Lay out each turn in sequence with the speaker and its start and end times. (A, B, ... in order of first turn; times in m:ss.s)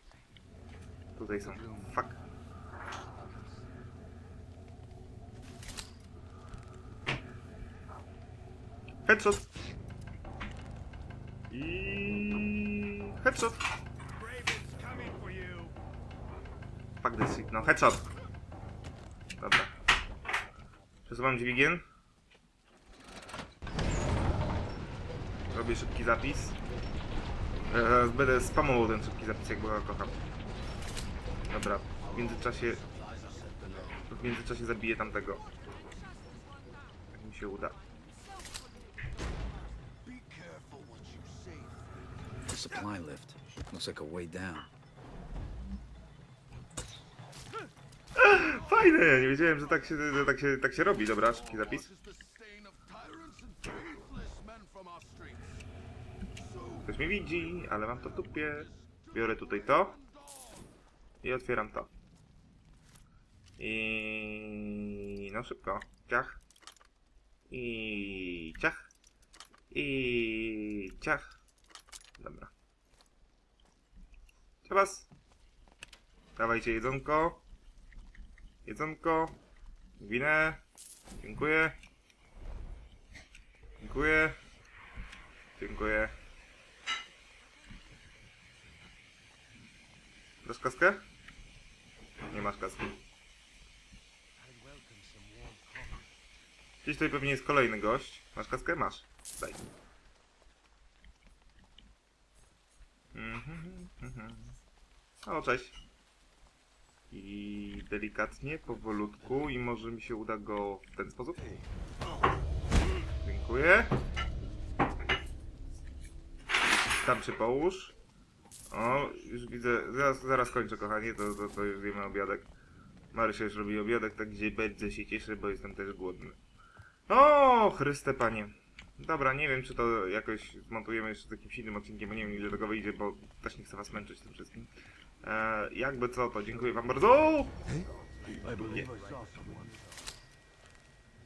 0:01.2-0:02.2 A
0:09.0-0:09.5 A
0:11.5-0:13.6 A
0:14.3-0:15.7 B
0:17.0-0:18.0 A
0:19.4-0:19.7 A
0:21.0-0:21.8 A
0:25.5-0:26.6 A
0:27.7-0:30.2 A
0:31.5-0:32.8 A
0:32.0-0:34.1 B
0:34.1-0:35.4 A
0:37.1-0:37.8 A
0:40.0-0:42.2 B
0:42.5-0:44.7 C
0:48.2-0:51.9 A
0:51.1-0:55.6 B
0:56.4-1:00.7 B
0:56.8-1:00.0 A
1:01.2-1:01.9 A
1:03.6-1:06.4 A
1:07.5-1:08.9 A
1:09.7-1:11.4 A
1:12.2-1:12.5 A
1:14.6-1:15.1 A
1:16.4-1:17.4 A
1:18.6-1:19.4 A
1:20.0-1:20.6 A
1:21.2-1:21.7 A
1:23.8-1:24.4 A
1:25.6-1:26.1 A
1:30.4-1:31.0 A
1:32.3-1:33.0 A
1:34.4-1:36.0 B
1:36.8-1:39.7 A
1:43.1-1:44.6 A
1:45.2-1:45.7 A
1:47.1-1:51.4 A
1:53.2-1:53.9 A
1:56.6-1:57.9 A
1:58.7-2:02.5 A
2:03.1-2:06.4 A
2:07.1-2:14.7 A
2:15.2-2:17.6 A
2:18.4-2:19.8 B
2:18.5-2:18.9 A